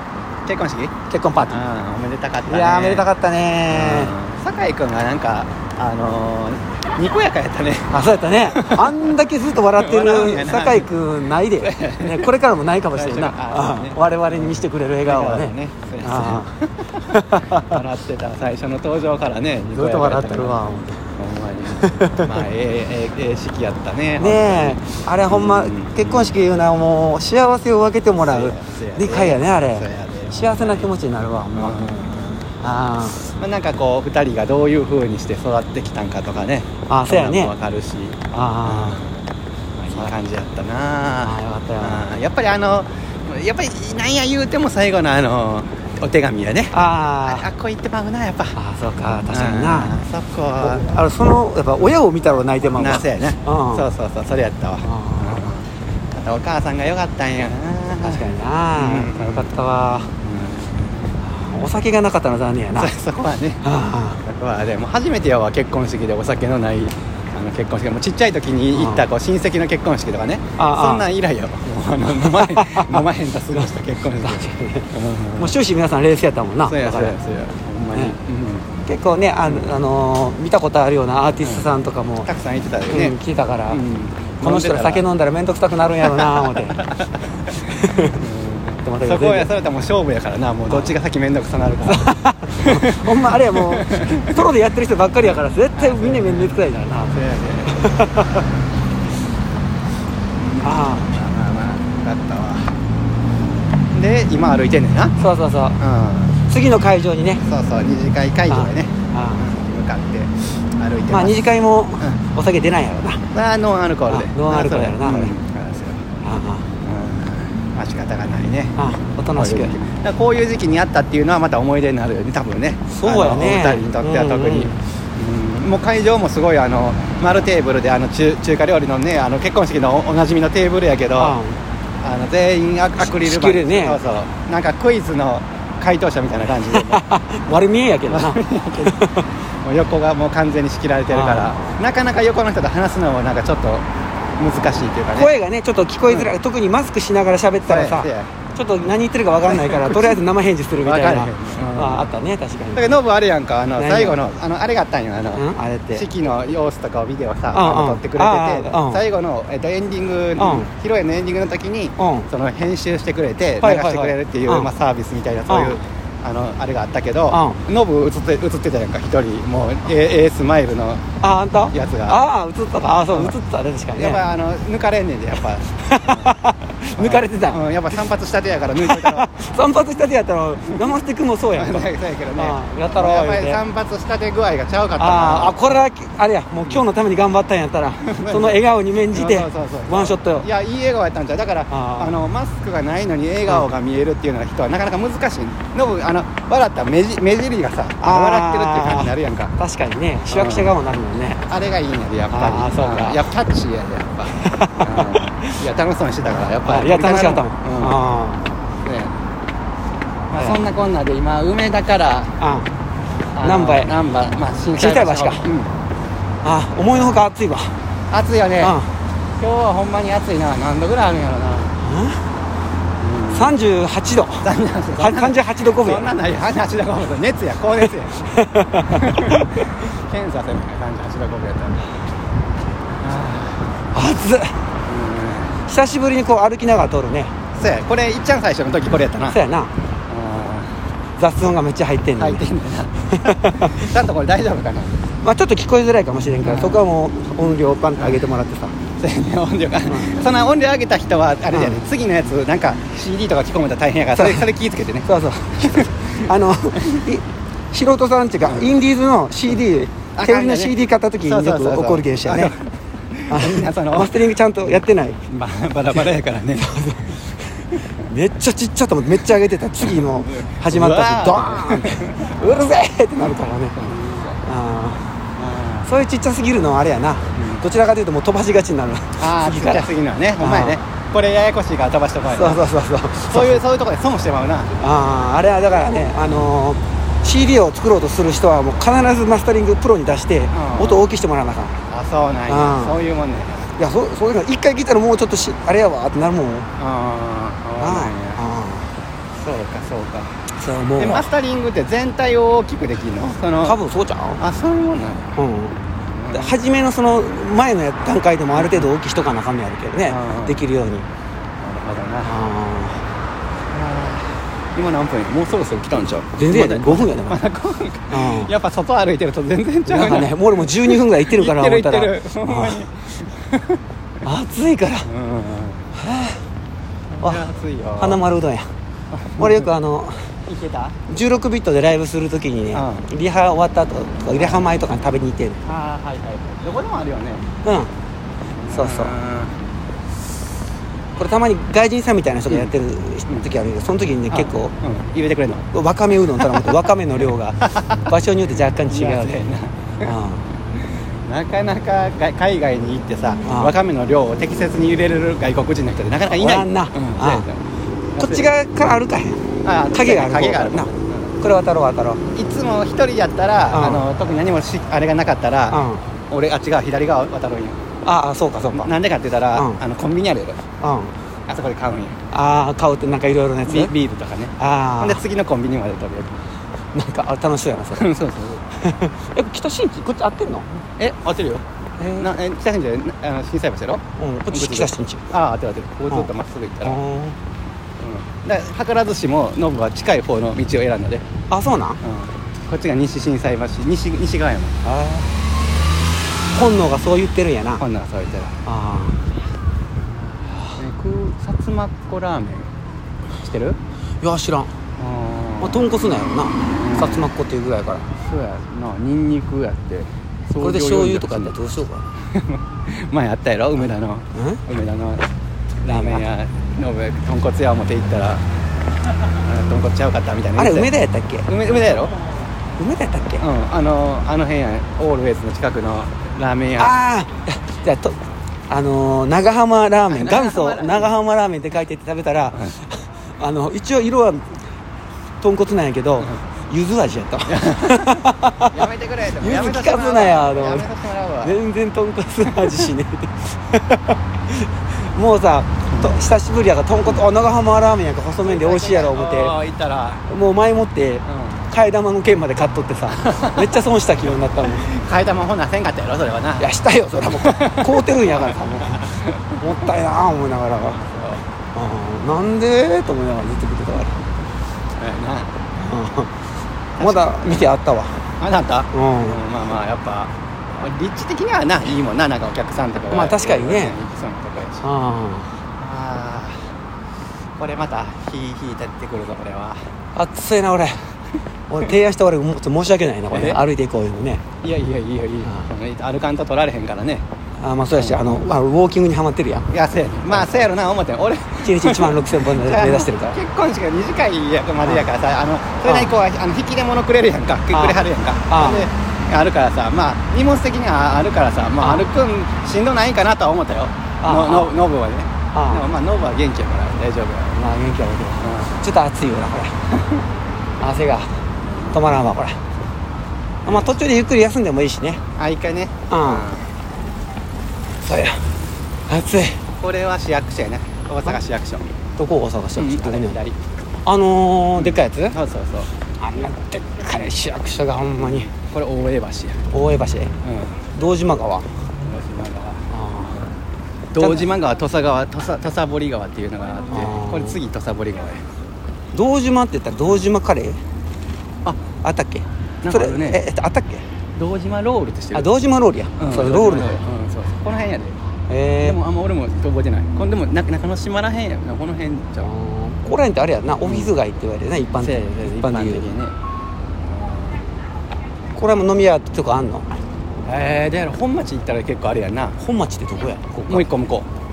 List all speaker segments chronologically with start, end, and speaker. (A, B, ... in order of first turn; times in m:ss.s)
0:00.4-0:03.1 A
0:01.1-0:01.6 B
0:02.4-0:04.1 B
0:03.7-0:09.1 A
0:07.9-0:16.5 B
0:09.7-0:12.3 A
0:12.9-0:20.6 A
0:17.1-0:17.8 B
0:19.7-0:21.0 B
0:21.1-0:26.4 A
0:21.8-0:22.3 B
0:24.2-0:31.8 B
0:28.2-0:30.9 A
0:31.5-0:32.5 A
0:32.6-0:33.2 B
0:33.2-0:39.2 A
0:36.9-0:37.5 B
0:38.3-0:39.0 B
0:39.8-0:48.6 A
0:41.2-0:42.0 B
0:46.7-0:47.4 B
0:48.5-0:49.9 B
0:49.3-0:50.9 A
0:50.6-0:53.9 B
0:52.7-0:59.5 A
0:54.8-0:55.5 B
0:58.0-1:00.1 B
1:00.2-1:01.1 A
1:01.2-1:02.9 B
1:02.8-1:03.7 A
1:03.6-1:04.2 B
1:04.2-1:15.6 A
1:08.7-1:09.0 B
1:10.6-1:11.1 B
1:12.0-1:17.2 B
1:16.6-1:18.7 A
1:18.8-1:22.3 B
1:21.4-1:21.7 A
1:22.2-1:23.2 A
1:22.9-1:23.8 B
1:23.7-1:25.1 A
1:24.4-1:26.8 B
1:26.0-1:34.4 A
1:27.7-1:28.2 B
1:28.8-1:29.5 B
1:31.9-1:38.5 B
1:35.2-1:38.4 A
1:40.4-1:42.7 A
1:40.6-1:41.1 B
1:43.9-1:45.2 A
1:45.2-1:45.8 B
1:45.8-1:46.4 A
1:46.4-1:47.4 B
1:47.4-1:51.5 A
1:48.5-1:49.4 B
1:51.1-1:53.2 B
1:53.3-1:56.1 A
1:54.1-1:55.3 B
1:56.2-1:56.7 B
1:56.8-1:58.8 A
1:58.8-1:59.7 B
1:59.3-2:11.4 A
2:02.9-2:04.8 B
2:11.2-2:11.6 B
2:12.0-2:17.0 A
2:13.0-2:14.0 B
2:16.7-2:19.3 B
2:18.1-2:23.8 A
2:21.1-2:21.6 B
2:24.4-2:25.3 A
2:25.1-2:33.0 B
2:26.1-2:26.3 A
2:27.6-2:28.3 A
2:29.4-2:30.2 A
2:30.8-2:32.1 A
2:32.7-2:51.0 A
2:33.8-2:34.2 B
2:35.3-2:36.1 B
2:37.5-2:39.0 B
2:40.4-2:40.7 B
2:42.0-2:42.3 B
2:43.6-2:44.7 B
2:45.5-2:45.8 B
2:47.3-2:47.6 B
2:51.2-2:54.2 B
2:51.7-2:52.2 A
2:53.1-2:53.3 A
2:53.9-2:56.4 A
2:55.8-2:57.6 B
2:57.0-2:59.3 A
2:58.8-3:03.6 B
3:01.5-3:05.8 A
3:05.0-3:10.4 B
3:08.0-3:19.6 A
3:11.7-3:12.2 B
3:18.0-3:21.4 B
3:20.3-3:20.7 A
3:21.5-3:28.0 A
3:22.3-3:23.3 B
3:24.3-3:25.6 B
3:26.6-3:28.4 B
3:28.8-3:29.1 A
3:30.3-3:32.4 A
3:32.4-3:32.7 B
3:33.3-3:35.7 A
3:33.4-3:33.9 B
3:34.8-3:35.4 B
3:36.4-3:37.7 B
3:36.9-3:37.2 A
3:38.1-3:38.8 A
3:38.6-3:38.9 B
3:39.4-3:41.8 A
3:41.8-3:42.2 B
3:43.0-3:43.6 A
3:43.3-3:44.4 B
3:44.4-3:48.3 A
3:45.0-3:46.1 B
3:48.2-3:49.4 B
3:48.9-3:51.9 A
3:53.0-3:53.7 A
3:53.9-3:54.6 B
3:54.8-3:55.6 A
3:55.7-3:57.3 B
3:57.5-3:59.4 A
3:59.3-3:59.7 B
4:00.1-4:00.8 A
4:01.2-4:02.4 B
4:02.2-4:05.0 A
4:03.2-4:03.8 B
4:05.2-4:08.8 B
4:06.4-4:06.8 A
4:08.0-4:08.2 A
4:09.0-4:17.0 A
4:09.9-4:10.1 B
4:11.5-4:11.9 B
4:14.1-4:14.5 B
4:15.0-4:22.5 B
4:18.4-4:18.8 A
4:20.1-4:26.8 A
4:23.3-4:25.2 B
4:25.9-4:27.2 B
4:28.0-4:33.8 B
4:29.8-4:32.7 A
4:33.8-4:34.4 A
4:34.4-4:35.1 B
4:35.4-4:35.9 A
4:35.8-4:39.9 B
4:37.4-4:37.6 A
4:39.2-4:42.7 A
4:40.4-4:40.8 B
4:42.3-4:43.6 B
4:43.2-4:44.7 A
4:44.8-4:51.8 B
4:50.5-4:51.1 A
4:51.9-4:53.7 A
4:52.5-4:53.0 B
4:53.8-4:56.7 B
4:56.8-4:58.4 A
4:57.8-4:58.9 B
4:59.3-5:00.3 A
5:00.6-5:01.3 B
5:01.0-5:03.8 A
5:03.6-5:04.4 B
5:04.4-5:05.4 A
5:05.4-5:05.8 B
5:06.1-5:06.6 A
5:06.3-5:11.0 B
5:08.5-5:08.9 A
5:10.1-5:10.6 A
5:11.6-5:12.4 A
5:12.2-5:13.0 B
5:13.7-5:23.8 A
5:16.4-5:17.4 B
5:18.1-5:18.5 B
5:19.8-5:22.8 B
5:24.2-5:25.1 B
5:25.0-5:25.9 A
5:26.0-5:26.4 B
5:27.2-5:28.2 A
5:27.2-5:27.5 B
5:28.0-5:28.7 B
5:29.1-5:29.7 A
5:29.4-5:30.2 B
5:30.5-5:31.0 A
5:31.1-5:35.6 B
5:32.7-5:33.1 A
5:34.3-5:34.7 A
5:35.6-5:37.4 A
5:37.6-5:37.9 B
5:38.6-5:39.6 A
5:38.7-5:39.2 B
5:41.2-5:44.7 B
5:44.3-5:45.7 A
5:45.7-5:49.4 B
5:46.3-5:46.8 A
5:47.6-5:48.0 A
5:48.8-5:50.1 A
5:50.0-5:50.4 B
5:51.2-5:58.5 A
5:53.4-5:53.8 B
5:56.3-5:57.4 B
5:58.2-5:59.4 B
5:59.6-6:01.4 A
5:59.9-6:00.9 B
6:01.4-6:02.2 B
6:02.3-6:07.8 A
6:03.7-6:04.1 B
6:05.7-6:06.0 B
6:08.0-6:08.9 B
6:08.7-6:10.6 A
6:09.5-6:09.8 B
6:10.8-6:11.2 B
6:11.5-6:12.2 A
6:12.3-6:13.9 B
6:13.6-6:16.4 A
6:14.6-6:15.2 B
6:16.9-6:18.0 B
6:17.9-6:18.8 A
6:18.8-6:20.7 B
6:21.0-6:27.0 A
6:22.0-6:22.3 B
6:24.2-6:25.2 B
6:26.8-6:27.4 B
6:28.0-6:31.2 A
6:31.5-6:32.0 B
6:32.0-6:34.8 A
6:34.8-6:35.3 B
6:36.5-6:37.8 B
6:37.8-6:38.5 A
6:38.6-6:39.2 B
6:40.7-6:42.7 A
6:43.4-6:43.8 A
6:44.2-6:44.7 B
6:45.0-6:45.8 A
6:45.6-6:48.1 B
6:46.7-6:47.3 A
6:48.2-6:51.6 A
6:50.6-6:52.0 B
6:52.3-6:55.2 A
6:54.3-6:54.6 B
6:55.8-6:58.4 A
6:55.9-6:56.2 B
6:59.4-7:00.9 A
7:00.6-7:01.5 B
7:01.4-7:02.1 A
7:02.8-7:03.4 B
7:03.4-7:06.9 A
7:06.8-7:14.5 B
7:10.1-7:11.1 A
7:15.4-7:18.7 B
7:17.4-7:21.6 A
7:19.4-7:20.9 B
7:21.4-7:29.5 B
7:22.5-7:22.9 A
7:28.4-7:30.2 A
7:30.2-7:34.9 B
7:31.3-7:31.6 A
7:33.1-7:33.8 A
7:34.6-7:36.7 A
7:36.6-7:41.0 B
7:37.3-7:39.6 A
7:40.8-7:41.4 A
7:41.7-7:44.2 B
7:45.0-7:45.5 A
7:45.8-7:46.3 B
7:47.0-7:47.7 A
7:47.0-7:48.2 B
7:48.4-7:54.9 A
7:48.9-7:49.4 B
7:53.1-7:54.0 B
7:54.8-7:55.5 B
7:55.8-7:56.7 A
7:57.6-7:59.8 A
8:00.1-8:01.0 B
8:01.7-8:04.4 B
8:03.3-8:03.6 A
8:04.6-8:07.2 A
8:07.6-8:09.6 B
8:07.9-8:08.3 A
8:09.7-8:27.7 A
8:10.3-8:10.7 B
8:11.6-8:13.3 B
8:15.8-8:16.1 B
8:17.7-8:18.9 B
8:21.8-8:22.1 B
8:24.2-8:24.8 B
8:25.5-8:25.8 B
8:27.6-8:29.7 B
8:28.4-8:28.8 A
8:30.8-8:31.3 B
8:31.7-8:32.2 A
8:31.9-8:32.6 B
8:33.6-8:35.2 B
8:33.6-8:34.0 A
8:35.4-8:36.7 A
8:36.1-8:36.5 B
8:38.0-8:38.4 B
8:39.1-8:39.6 B
8:39.8-8:41.9 A
8:42.2-8:43.4 B
8:42.8-8:43.6 A
8:44.0-8:45.4 B
8:44.8-8:45.9 A
8:46.2-8:48.5 B
8:48.2-8:49.6 A
8:49.7-8:50.3 B
8:50.4-8:50.8 A
8:50.9-8:51.7 B
8:52.0-8:53.6 A
8:52.9-8:53.4 B
8:54.1-8:58.4 A
8:54.2-8:54.5 B
8:56.9-8:57.6 B
8:59.1-9:00.8 B
9:02.0-9:04.0 B
9:02.8-9:03.4 A
9:04.4-9:05.5 A
9:05.3-9:07.0 B
9:06.2-9:08.2 A
9:08.5-9:09.0 B
9:08.8-9:12.5 A
9:12.4-9:16.1 B
9:13.8-9:14.1 A
9:15.0-9:16.3 A
9:17.1-9:17.6 A
9:18.5-9:19.9 B
9:20.4-9:22.6 A
9:22.6-9:23.9 B
9:23.7-9:24.3 A